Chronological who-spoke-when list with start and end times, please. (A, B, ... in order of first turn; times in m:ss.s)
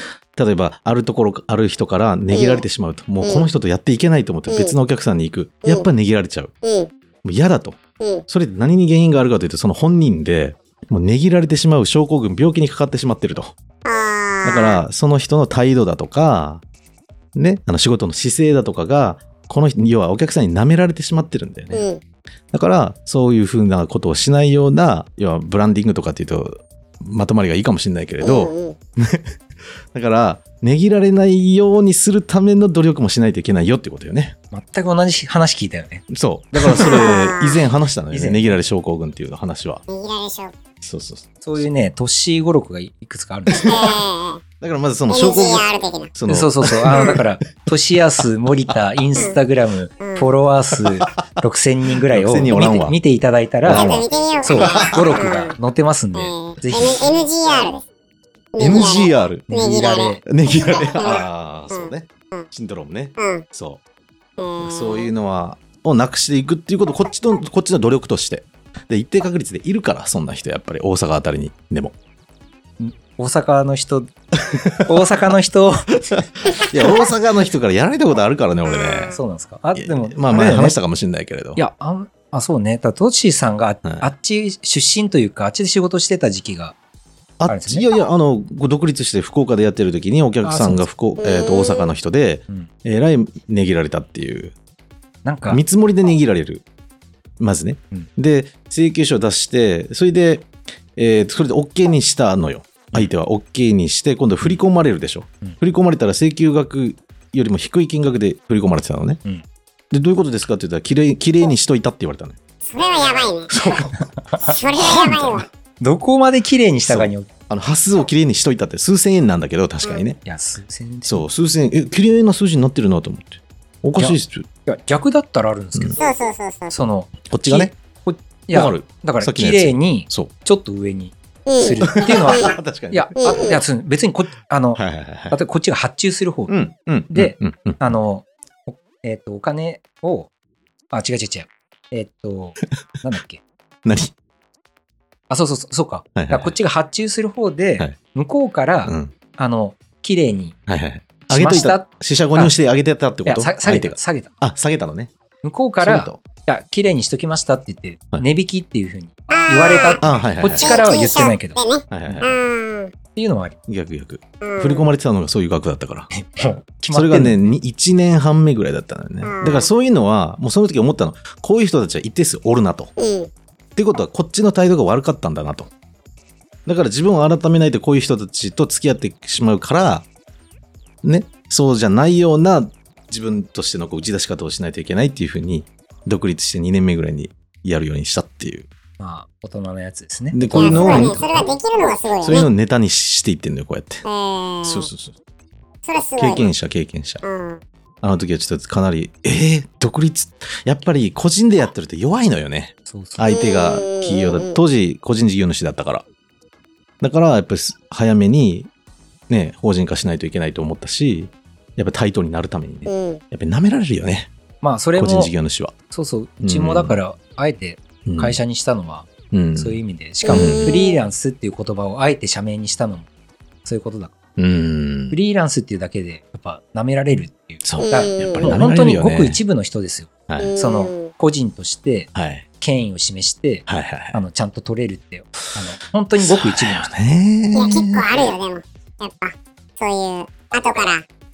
0:00.4-0:06.5 A
0:02.3-0:02.6 B
0:04.5-0:04.8 B
0:06.6-0:06.9 B
0:07.2-0:13.5 A
0:08.0-0:08.2 B
0:13.8-0:14.8 B
0:14.4-0:16.6 A
0:17.4-0:21.8 A
0:21.7-0:22.0 B
0:22.5-0:29.3 A
0:28.2-0:28.8 B
0:29.9-0:34.4 A
0:34.5-0:37.0 C
0:36.1-0:39.8 A
0:36.8-0:37.6 B
0:38.1-0:38.6 C
0:39.9-0:40.5 B
0:40.8-0:41.7 A
0:41.4-0:43.9 C
0:43.5-0:44.0 A
0:43.6-0:44.4 B
0:44.6-0:47.2 A
0:45.1-0:46.1 B
0:46.3-0:57.1 C
0:48.7-0:49.3 A
0:50.0-0:50.3 B
0:50.7-0:51.1 A
0:52.1-0:53.0 A
0:53.6-0:55.3 A
0:53.7-0:55.6 B
0:56.2-0:57.8 B
0:58.5-1:02.5 B
0:58.6-0:59.5 A
0:59.5-1:00.2 C
1:00.2-1:03.8 A
1:03.2-1:03.4 B
1:04.4-1:05.1 B
1:04.6-1:12.0 A
1:12.8-1:16.0 C
1:14.5-1:15.0 A
1:16.2-1:19.2 A
1:18.7-1:19.2 B
1:19.1-1:20.8 C
1:19.8-1:21.6 A
1:21.6-1:26.8 C
1:23.8-1:24.1 A
1:27.4-1:34.6 A
1:27.5-1:27.9 C
1:30.4-1:30.9 C
1:31.2-1:31.9 B
1:35.2-1:35.6 C
1:35.5-1:36.6 A
1:37.4-1:49.2 A
1:49.9-1:52.4 A
1:52.7-1:53.5 B
1:53.6-1:54.0 A
1:53.7-1:57.3 C
1:54.4-1:55.5 B
1:54.8-1:55.4 A
1:56.9-2:00.2 A
2:00.2-2:01.3 C
2:01.1-2:04.5 A
2:04.0-2:06.1 C
2:06.0-2:06.8 B
2:06.7-2:16.6 C
2:07.3-2:07.7 A
2:08.5-2:10.3 A
2:11.5-2:12.5 B
2:11.9-2:13.6 A
2:13.2-2:13.6 B
2:14.8-2:15.4 A
2:16.5-2:17.8 A
2:17.1-2:20.3 C
2:20.9-2:23.4 C
2:23.8-2:24.1 A
2:25.3-2:30.6 C
2:26.2-2:26.6 A
2:28.9-2:29.1 A
2:30.7-2:35.1 A
2:31.3-2:32.6 C
2:33.2-2:34.3 C
2:35.4-2:42.2 C
2:35.8-2:36.2 A
2:39.3-2:42.9 B
2:40.0-2:40.8 A
2:41.9-2:42.4 A
2:43.2-2:43.6 C
2:43.7-2:46.1 A
2:44.4-2:44.9 B
2:46.1-2:47.5 C
2:46.9-2:52.9 A
2:49.2-2:49.7 B
2:53.0-2:53.3 B
2:53.8-2:55.7 A
2:56.7-3:00.1 A
3:01.0-3:08.7 A
3:09.0-3:11.5 C
3:10.3-3:11.4 A
3:10.5-3:12.5 B
3:12.2-3:14.0 A
3:14.0-3:14.9 B
3:14.6-3:15.1 A
3:15.8-3:16.5 B
3:16.2-3:17.2 A
3:17.2-3:17.6 B
3:18.0-3:26.0 A
3:22.9-3:23.3 C
3:23.3-3:24.6 B
3:27.0-3:28.7 A
3:29.3-3:34.3 A
3:32.9-3:33.2 B
3:34.6-3:35.3 C
3:35.0-3:35.7 A
3:35.9-3:43.1 C
3:36.4-3:37.0 A
3:38.0-3:38.4 A
3:39.3-3:40.8 A
3:40.2-3:41.0 B
3:43.6-3:44.2 C
3:44.4-3:45.2 A
3:45.1-3:57.0 C
3:47.6-3:49.4 A
3:47.8-3:48.5 B
3:50.3-3:50.5 A
3:50.4-3:51.1 B
3:52.2-3:52.5 A
3:53.7-3:54.2 A
3:56.2-3:58.3 A
3:57.5-4:01.0 B